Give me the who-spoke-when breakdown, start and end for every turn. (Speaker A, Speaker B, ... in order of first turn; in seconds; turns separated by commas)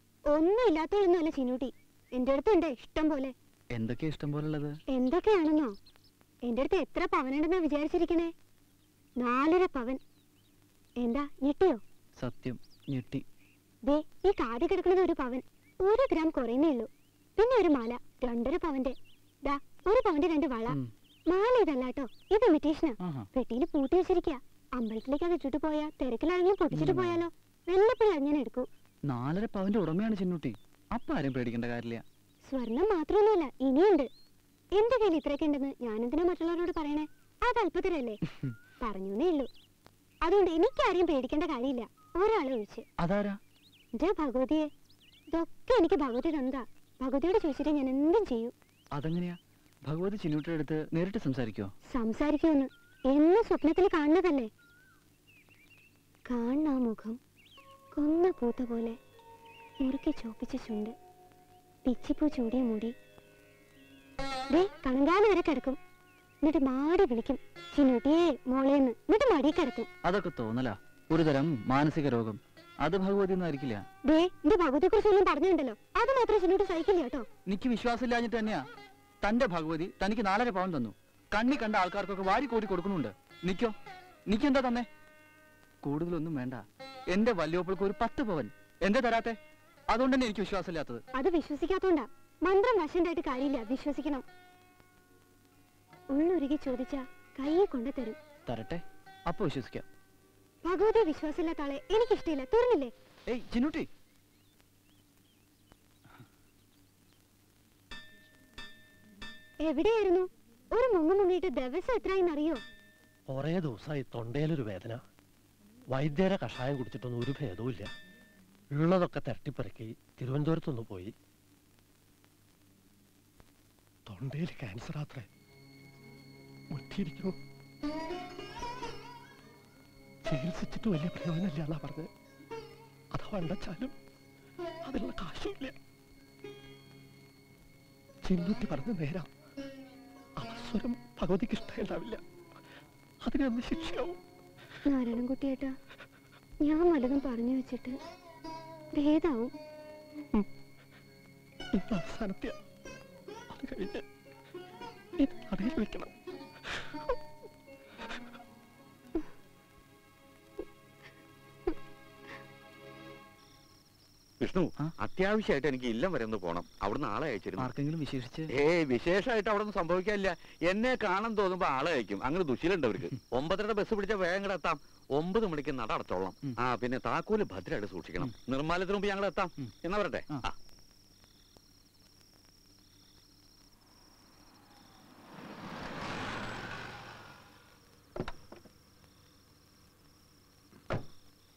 Speaker A: 0.3-3.3, Speaker B: 3.7-4.8, Speaker A: 4.9-5.7, Speaker A: 6.5-8.3, Speaker A: 9.2-10.0, Speaker A: 11.0-11.8, Speaker B: 12.2-13.2, Speaker A: 13.9-20.8, Speaker A: 21.3-28.7, Speaker B: 23.0-23.3, Speaker B: 26.7-27.2, Speaker B: 29.1-32.0, Speaker A: 32.5-34.1, Speaker A: 34.7-38.2, Speaker A: 38.8-39.5, Speaker A: 40.2-42.9, Speaker B: 43.0-43.4, Speaker A: 44.0-44.7, Speaker A: 45.3-48.5, Speaker B: 49.0-51.7, Speaker A: 51.9-54.5, Speaker A: 56.3-57.2, Speaker A: 57.9-59.0, Speaker A: 59.8-60.9, Speaker A: 61.9-62.9, Speaker A: 64.5-65.8, Speaker A: 66.4-69.9, Speaker B: 70.0-73.8, Speaker A: 74.1-77.2, Speaker B: 77.5-78.6, Speaker B: 79.2-83.7, Speaker B: 84.3-84.9, Speaker B: 85.8-89.4, Speaker B: 89.9-91.0, Speaker A: 91.1-94.2, Speaker A: 96.1-98.2, Speaker B: 98.5-99.8, Speaker A: 100.6-102.9, Speaker B: 103.3-103.9, Speaker A: 109.6-112.6, Speaker C: 113.3-115.0, Speaker C: 115.9-117.8, Speaker C: 118.7-121.1, Speaker C: 124.1-125.2, Speaker C: 126.7-127.3, Speaker C: 130.3-132.1, Speaker C: 133.1-133.9, Speaker C: 134.8-135.7, Speaker C: 138.2-139.3, Speaker C: 140.4-142.2, Speaker C: 143.2-144.2, Speaker A: 144.9-145.7, Speaker A: 146.6-147.9, Speaker A: 149.0-149.5, Speaker C: 151.8-152.5, Speaker C: 153.5-154.0, Speaker C: 155.2-156.1, Speaker D: 164.4-167.7, Speaker B: 167.6-168.5, Speaker D: 168.5-180.5